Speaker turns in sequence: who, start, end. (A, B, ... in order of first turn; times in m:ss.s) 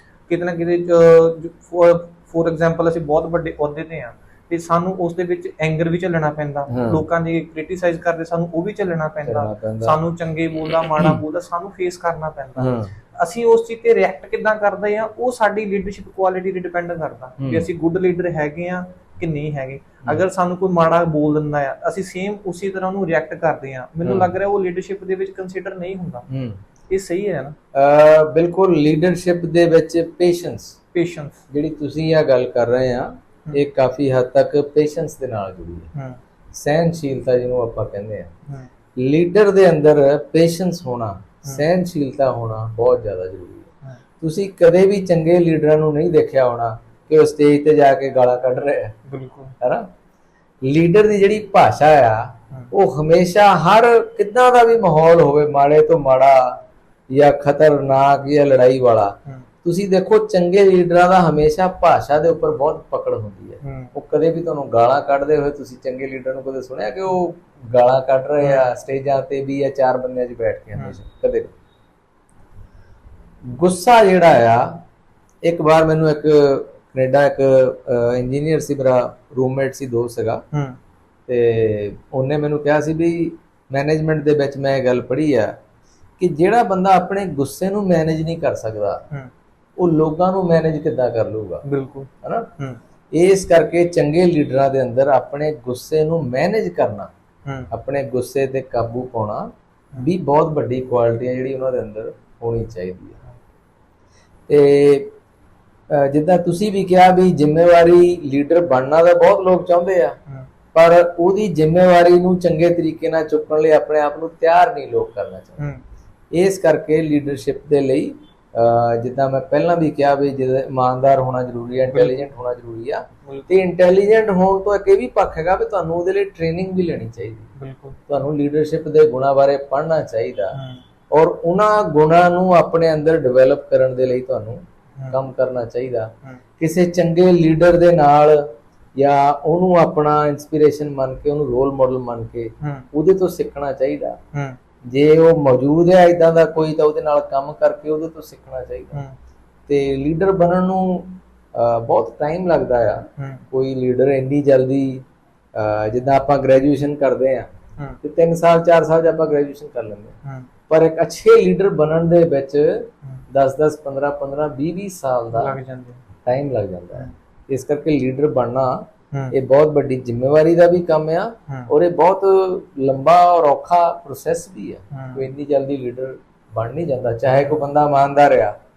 0:00.3-0:26.3 A
0:06.7-0:07.0 B
0:09.3-0:10.0 B
0:12.6-0:12.9 B
0:17.4-0:17.7 B
0:24.0-0:24.3 B
0:26.3-0:26.6 B
0:26.9-0:27.6 A
0:27.7-0:30.8 B
0:30.9-0:31.4 A
0:31.5-0:35.9 B
0:36.6-0:38.3 B
0:39.0-0:49.0 B
0:49.1-0:49.5 A
0:49.6-0:49.9 B
0:50.6-0:56.6 B
0:57.1-1:11.5 B
1:03.6-1:03.9 A
1:08.4-1:08.7 A
1:13.4-1:14.8 B
1:15.4-1:20.4 B
1:20.5-1:20.8 A
1:21.3-1:25.5 B
1:26.2-1:29.0 B
1:29.8-1:31.6 B
1:31.7-1:32.8 A
1:32.2-1:32.5 B
1:33.1-1:37.1 B
1:37.7-1:43.2 B
1:44.5-1:45.1 B
1:45.9-1:50.2 B
1:50.7-1:55.6 B
1:56.3-2:07.5 B
2:01.9-2:02.3 A
2:03.2-2:03.5 A
2:07.6-2:08.0 A
2:08.1-2:10.6 B
2:10.6-2:10.8 A
2:11.1-2:18.4 B
2:19.0-2:24.2 B
2:22.6-2:22.9 A
2:24.9-2:29.0 B
2:29.7-2:37.5 B
2:33.2-2:33.4 A
2:38.0-2:40.2 B
2:40.7-2:45.6 B
2:45.3-2:46.0 A
2:46.3-2:58.5 B
2:54.9-2:55.3 A